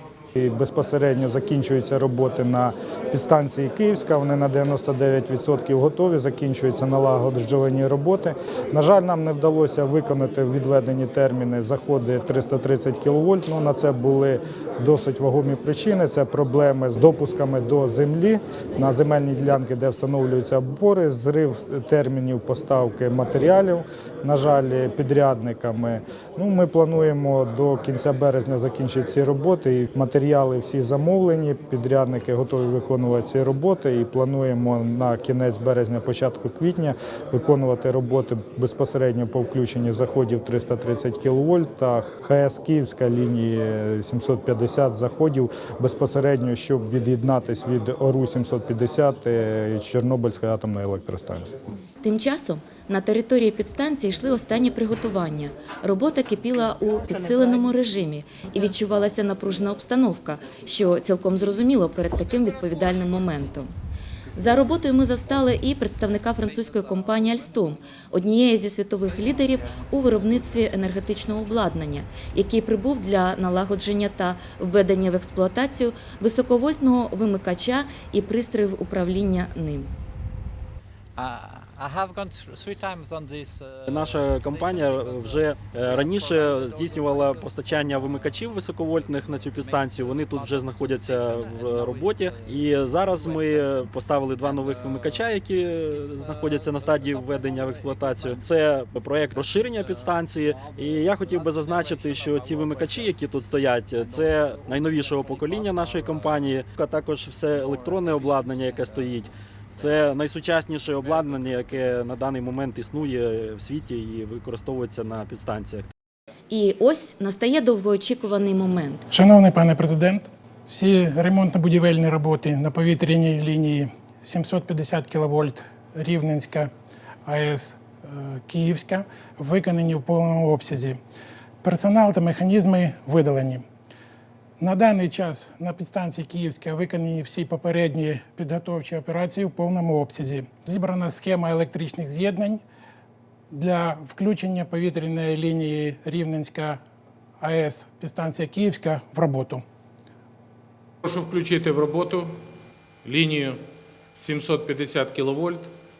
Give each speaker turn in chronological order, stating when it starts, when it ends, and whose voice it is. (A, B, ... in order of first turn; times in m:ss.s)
0:00.4-0:51.5 A
0:52.0-1:03.7 B
1:04.4-1:19.9 B
1:09.8-1:10.4 C
1:21.2-1:33.9 C
1:23.9-1:55.9 D
1:34.4-1:38.5 C
1:39.3-1:46.6 C
1:47.5-1:50.0 C
1:51.0-1:52.1 C
1:56.5-1:59.0 B
1:59.1-2:06.7 E
2:07.2-2:11.0 E
2:11.6-2:13.6 E
2:14.6-2:22.6 E
2:23.5-2:26.8 E
2:27.4-2:29.6 E
2:31.0-2:32.4 F
2:33.0-2:33.6 F
2:34.2-2:35.7 F